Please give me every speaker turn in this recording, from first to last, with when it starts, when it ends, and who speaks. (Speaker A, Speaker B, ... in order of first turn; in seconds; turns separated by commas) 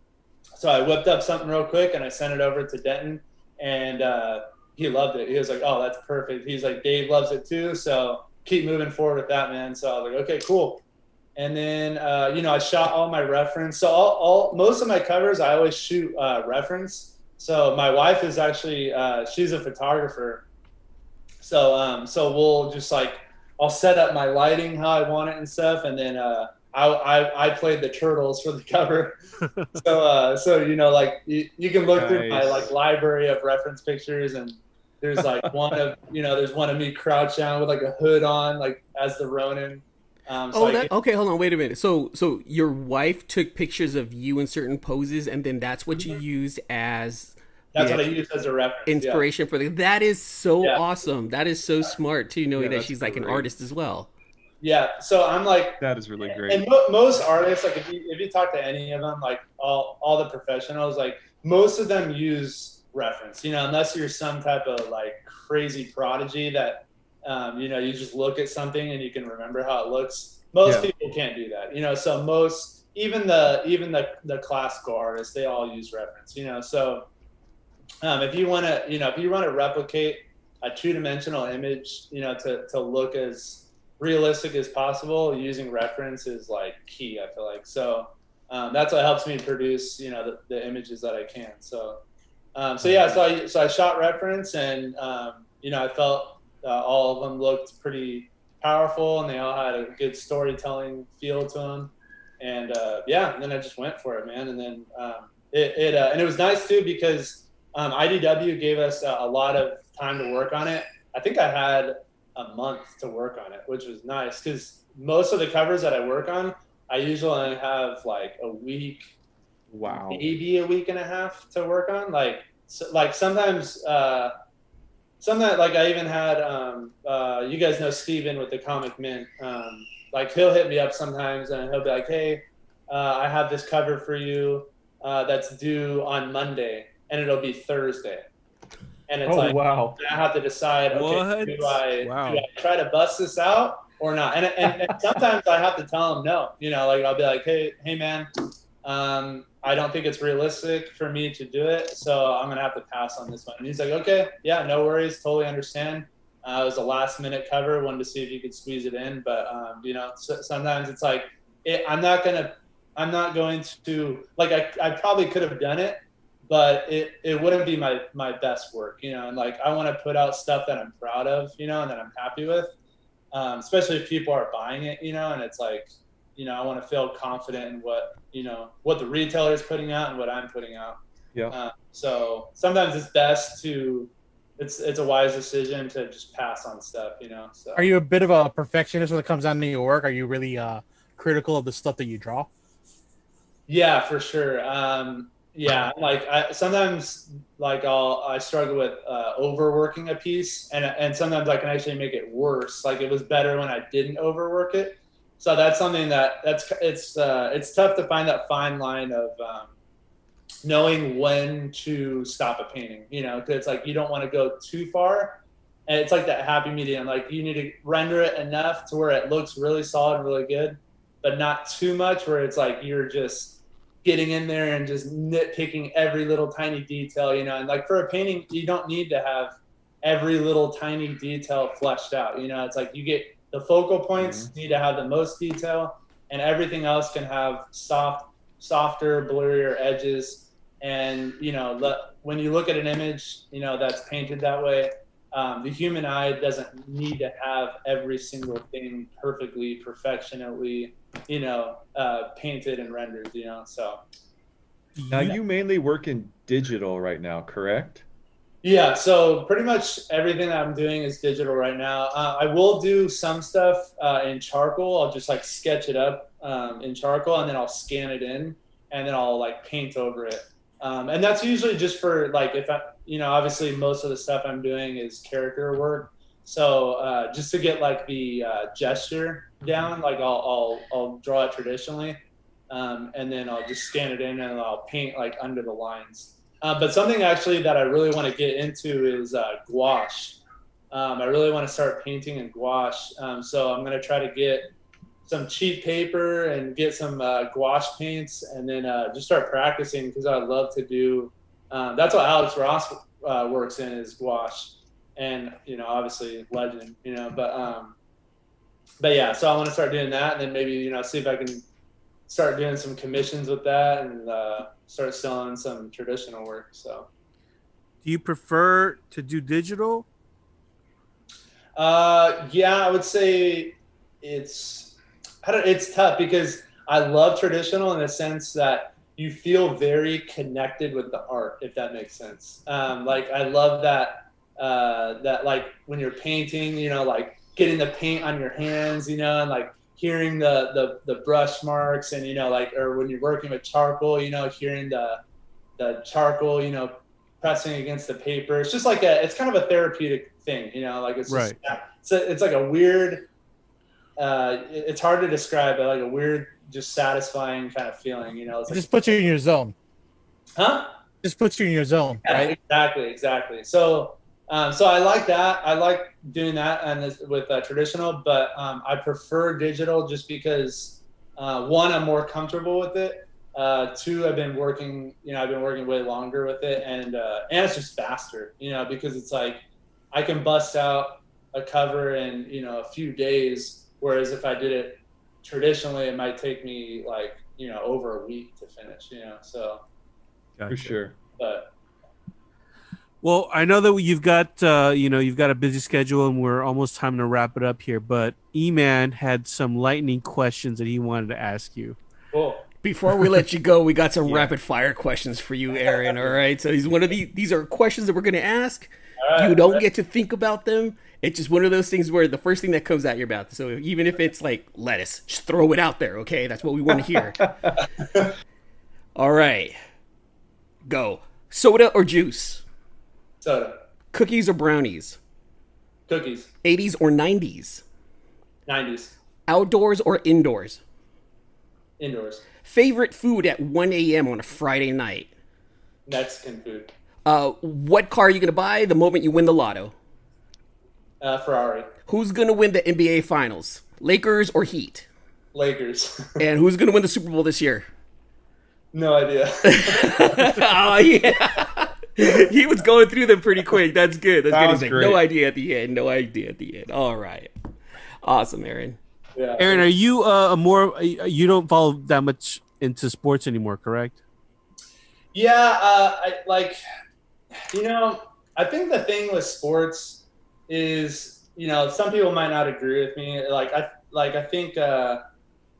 Speaker A: 0.6-10.8, Speaker A: 11.3-20.4, Speaker A: 21.4-29.1, Speaker A: 29.7-40.9, Speaker B: 31.9-32.7, Speaker C: 40.5-48.0, Speaker A: 47.7-49.2, Speaker C: 48.9-54.1, Speaker B: 52.5-53.5, Speaker A: 54.6-77.1, Speaker B: 55.8-56.6, Speaker B: 70.6-70.9, Speaker A: 78.0-92.0, Speaker A: 92.5-119.1, Speaker B: 119.7-120.2, Speaker A: 119.9-124.3, Speaker A: 125.2-138.2, Speaker A: 139.1-148.3, Speaker B: 139.2-140.0, Speaker D: 140.9-142.4, Speaker A: 148.8-172.7, Speaker A: 173.3-181.0, Speaker A: 181.5-187.9, Speaker E: 187.7-192.5, Speaker A: 193.7-209.7, Speaker A: 210.6-254.0, Speaker B: 234.2-234.5, Speaker D: 254.9-255.4, Speaker B: 255.1-258.0, Speaker A: 258.6-282.2, Speaker A: 282.7-290.4, Speaker A: 290.9-294.7, Speaker A: 295.2-307.9, Speaker A: 309.0-311.6, Speaker A: 312.3-317.1, Speaker D: 318.0-320.1, Speaker A: 321.8-345.2, Speaker A: 345.8-353.3, Speaker D: 351.3-351.6, Speaker A: 354.2-359.2, Speaker E: 358.7-359.7, Speaker A: 360.6-360.9, Speaker E: 361.2-362.2, Speaker A: 362.2-389.8, Speaker D: 390.6-391.0, Speaker B: 390.7-391.1, Speaker A: 391.4-391.7, Speaker D: 393.2-402.0, Speaker A: 402.3-402.6, Speaker C: 402.8-417.6, Speaker A: 409.2-409.8, Speaker C: 419.1-419.7, Speaker C: 420.9-422.6, Speaker A: 423.4-423.8, Speaker C: 424.1-425.2, Speaker A: 426.1-426.5, Speaker C: 426.6-427.8, Speaker A: 428.6-429.1, Speaker C: 429.5-430.8, Speaker A: 432.0-432.4, Speaker C: 432.6-435.3, Speaker A: 436.1-436.9, Speaker C: 437.2-439.9, Speaker A: 441.2-441.9, Speaker C: 442.1-445.1, Speaker A: 445.5-446.4, Speaker C: 446.4-447.9, Speaker A: 448.9-450.5, Speaker C: 449.6-457.5, Speaker B: 454.5-455.2, Speaker C: 458.2-459.0, Speaker A: 459.4-459.9, Speaker D: 459.6-464.2, Speaker A: 465.3-466.8, Speaker A: 467.5-475.2